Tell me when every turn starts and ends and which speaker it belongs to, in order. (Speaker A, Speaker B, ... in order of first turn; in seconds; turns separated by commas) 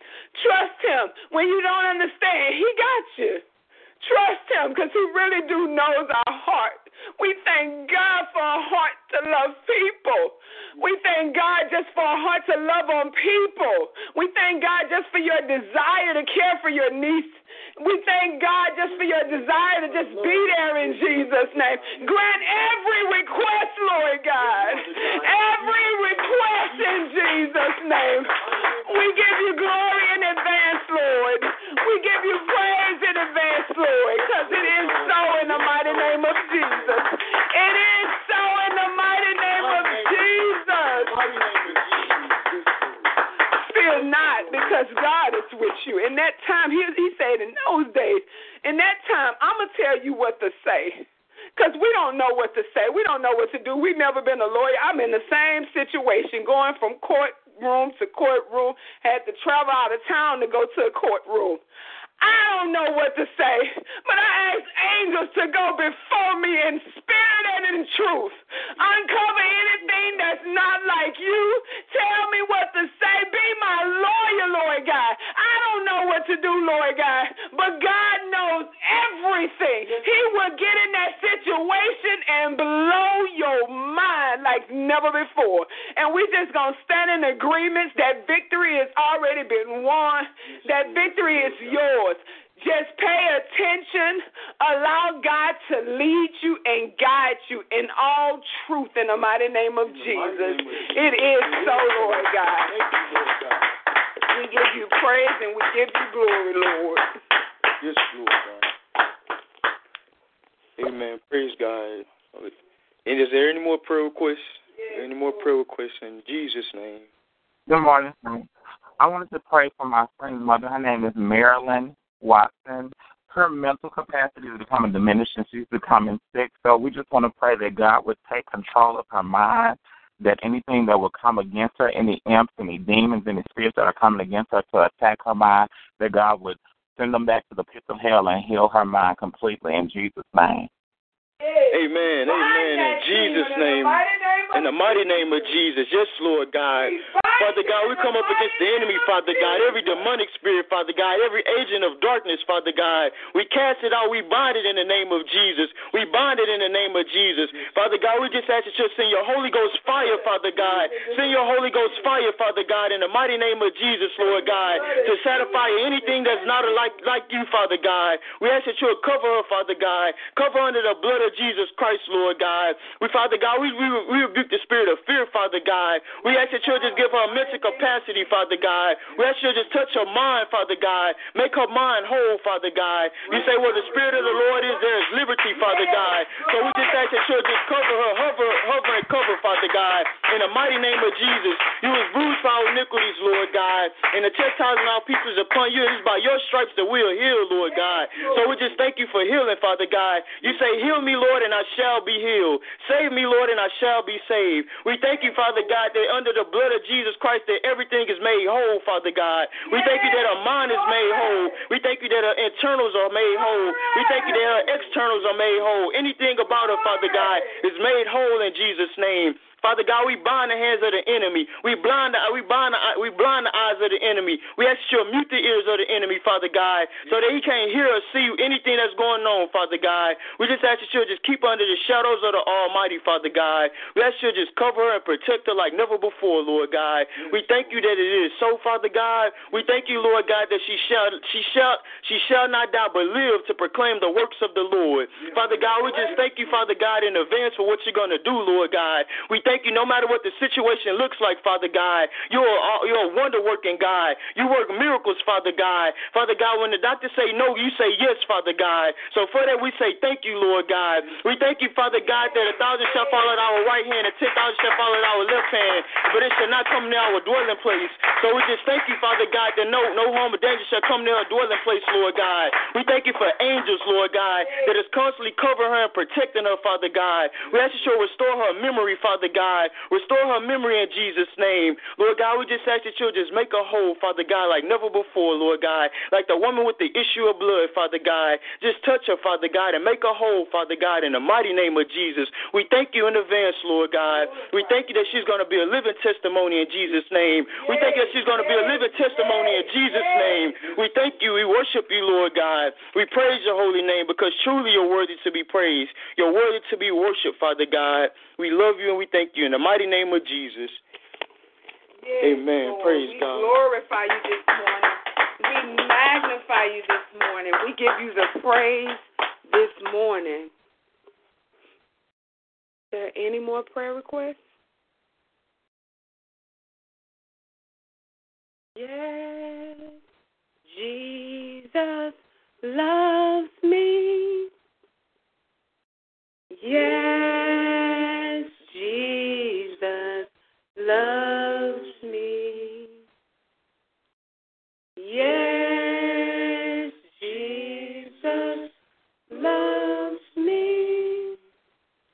Speaker A: 0.3-3.4, Speaker A: 4.0-41.2, Speaker B: 18.9-22.2, Speaker B: 24.3-26.9, Speaker B: 28.3-29.0, Speaker B: 34.1-37.0, Speaker B: 39.5-43.1, Speaker A: 43.6-51.0, Speaker B: 43.9-44.8, Speaker A: 51.5-61.6, Speaker A: 62.2-102.7, Speaker B: 90.5-91.8, Speaker B: 99.8-103.7, Speaker A: 104.3-107.0, Speaker B: 107.8-108.7, Speaker B: 110.8-117.1, Speaker A: 114.7-115.5, Speaker C: 117.7-140.7, Speaker A: 141.4-145.5, Speaker B: 141.7-310.8, Speaker A: 146.8-150.1, Speaker A: 159.8-162.1, Speaker A: 164.2-166.9, Speaker A: 176.2-178.0, Speaker A: 183.3-184.9, Speaker A: 185.5-187.0, Speaker A: 197.7-198.6, Speaker A: 209.7-211.6, Speaker A: 213.3-214.7, Speaker A: 216.4-217.6, Speaker A: 274.4-274.7, Speaker A: 294.3-294.6, Speaker A: 297.6-300.6, Speaker A: 312.0-320.5, Speaker B: 312.2-313.5, Speaker A: 322.9-324.4, Speaker A: 328.8-329.9, Speaker A: 330.7-334.5, Speaker A: 336.5-342.9, Speaker A: 345.0-348.7, Speaker A: 349.3-351.4